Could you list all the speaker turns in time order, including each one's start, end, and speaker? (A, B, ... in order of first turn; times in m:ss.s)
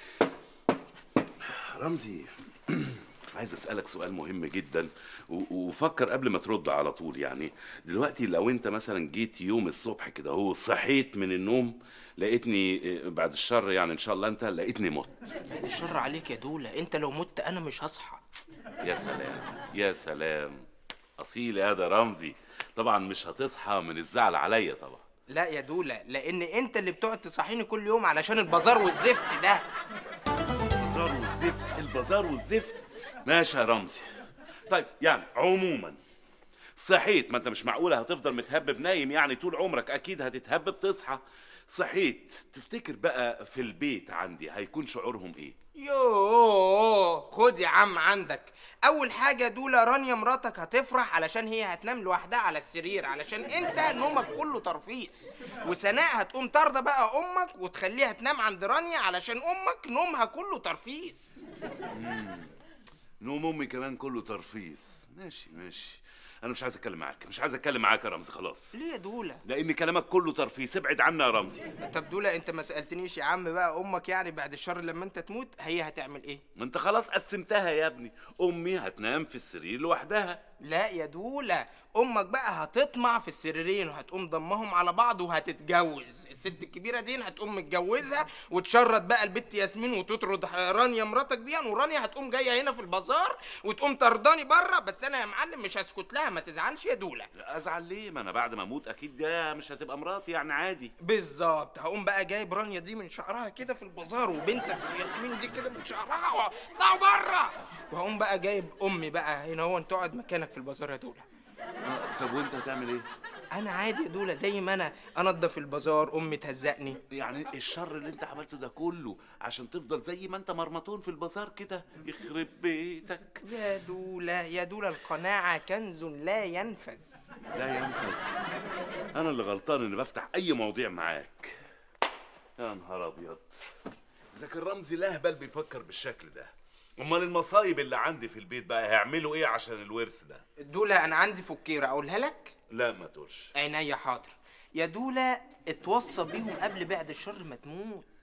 0:01.4-0:15.3 A
0:15.5-0:18.2 B
0:18.8-0:20.6 A
0:21.2-0:25.0 A
0:25.3-0:29.6 B
0:30.8-0:34.1 A
0:34.7-0:36.0 A
0:36.8-0:45.6 A
0:45.8-1:01.4 B
1:01.9-1:02.5 A
1:03.2-1:08.7 A
1:08.7-1:09.4 B
1:09.4-1:11.7 A
1:11.8-1:16.4 B
1:16.6-1:20.4 A
1:20.6-1:37.3 B
1:37.4-1:40.9 A
1:41.0-1:51.3 B
1:51.8-1:53.1 A
1:53.5-1:57.0 B
1:57.1-2:03.4 A
2:03.4-2:07.2 B
2:07.6-2:08.5 A
2:09.1-2:11.6 A
2:12.6-2:13.6 A
2:14.3-2:20.4 A
2:20.6-2:22.5 B
2:22.7-2:23.5 A
2:23.6-2:28.1 B